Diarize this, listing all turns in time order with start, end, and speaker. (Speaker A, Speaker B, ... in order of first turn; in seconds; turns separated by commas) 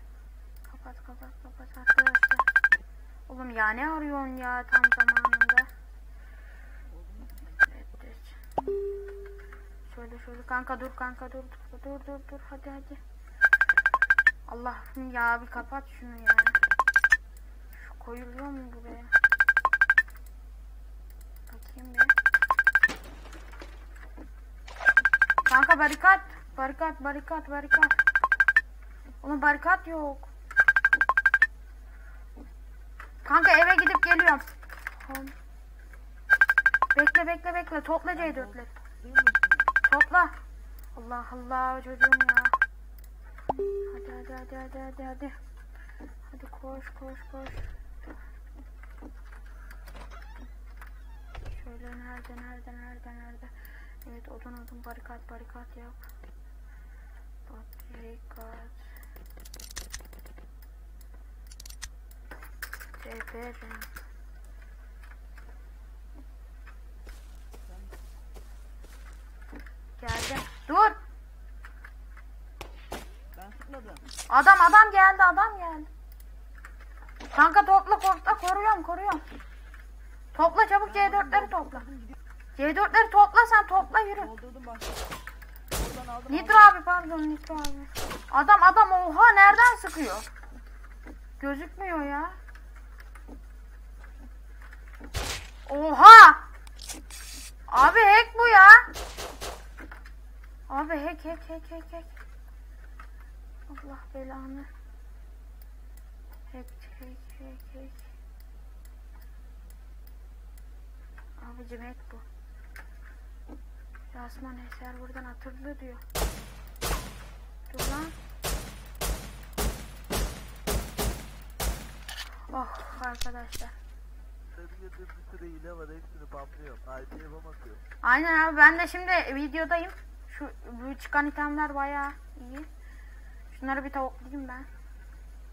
Speaker A: 0.7-2.5, Speaker A: 3.3-5.7, Speaker B: 6.8-7.7, Speaker A: 7.7-8.4, Speaker A: 9.8-13.0, Speaker A: 14.4-16.6, Speaker A: 17.7-19.1, Speaker A: 21.5-22.1, Speaker A: 25.4-27.9, Speaker A: 29.2-30.3, Speaker A: 33.2-34.5, Speaker A: 35.0-35.3, Speaker A: 36.9-38.7, Speaker B: 38.1-39.7, Speaker A: 39.8-40.4, Speaker A: 40.9-42.5, Speaker A: 43.8-45.4, Speaker A: 46.3-47.7, Speaker A: 51.5-56.0, Speaker A: 57.5-58.8, Speaker A: 63.0-63.9, Speaker B: 67.6-67.9, Speaker A: 70.0-71.0, Speaker B: 73.3-74.0, Speaker A: 74.3-75.9, Speaker A: 77.3-79.2, Speaker A: 80.3-81.9, Speaker B: 80.9-82.1, Speaker A: 82.6-84.3, Speaker B: 84.2-85.0, Speaker B: 85.7-86.7, Speaker A: 86.3-90.3, Speaker A: 91.4-92.3, Speaker A: 95.7-96.4, Speaker A: 97.7-98.9, Speaker A: 100.7-102.1, Speaker A: 103.7-104.7, Speaker A: 106.5-108.1, Speaker A: 111.4-112.2, Speaker A: 114.1-116.0, Speaker A: 117.7-118.1, Speaker A: 122.5-123.7, Speaker C: 124.5-127.8, Speaker A: 128.0-132.7, Speaker A: 133.5-134.7